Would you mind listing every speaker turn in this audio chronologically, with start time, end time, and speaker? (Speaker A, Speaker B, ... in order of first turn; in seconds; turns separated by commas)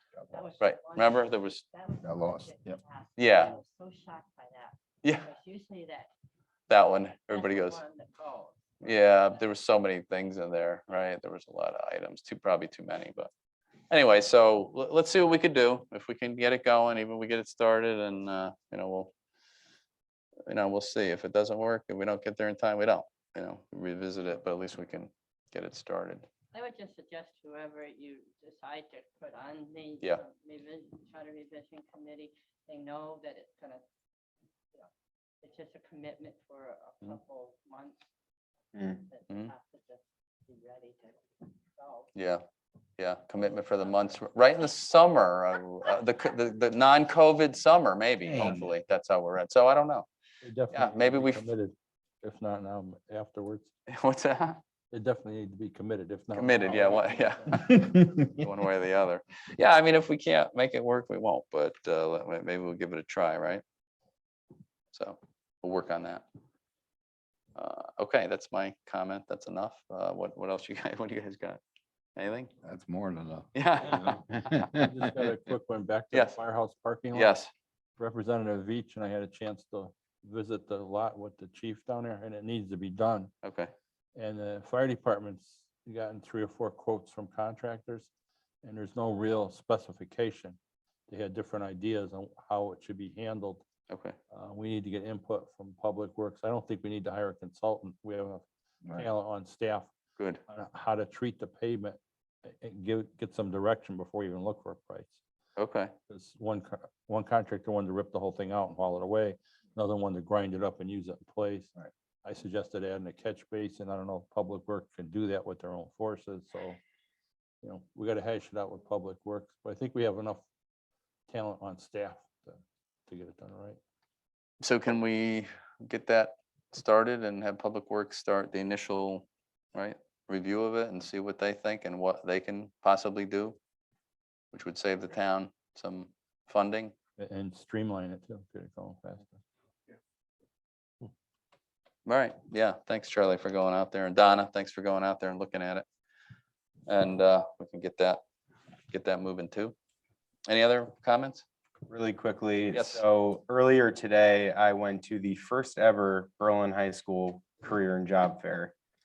Speaker A: 0.3-6.1, Speaker B: 0.6-1.6, Speaker C: 2.0-2.8, Speaker B: 3.2-3.5, Speaker B: 5.0-5.3, Speaker B: 6.7-7.8, Speaker A: 7.3-9.3, Speaker B: 8.8-13.3, Speaker B: 13.9-19.1, Speaker B: 20.5-26.3, Speaker A: 26.5-33.8, Speaker A: 35.4-38.1, Speaker A: 38.9-41.2, Speaker A: 41.7-42.1, Speaker B: 42.1-42.4, Speaker B: 43.0-50.1, Speaker A: 43.4-44.1, Speaker D: 50.4-53.7, Speaker B: 50.7-51.4, Speaker B: 53.9-54.6, Speaker D: 54.9-57.7, Speaker B: 56.3-63.6, Speaker B: 64.9-66.2, Speaker B: 67.5-71.6, Speaker B: 72.2-72.5, Speaker C: 72.6-75.2, Speaker B: 73.5-74.7, Speaker D: 73.8-74.1, Speaker D: 74.7-77.4, Speaker B: 77.1-77.5, Speaker D: 78.0-83.3, Speaker B: 83.4-83.7, Speaker D: 84.2-88.1, Speaker D: 88.6-90.6, Speaker D: 91.1-93.6, Speaker B: 93.9-94.2, Speaker D: 94.3-99.9, Speaker D: 100.5-102.0, Speaker D: 102.5-105.2, Speaker B: 105.6-105.9, Speaker D: 106.1-116.8, Speaker D: 117.6-120.4, Speaker D: 121.3-123.8, Speaker B: 124.6-133.6, Speaker B: 134.5-136.9, Speaker D: 137.2-139.4, Speaker B: 142.1-145.9, Speaker B: 146.9-148.2, Speaker B: 148.9-149.7, Speaker B: 150.5-151.4, Speaker E: 151.9-158.7, Speaker B: 152.7-153.0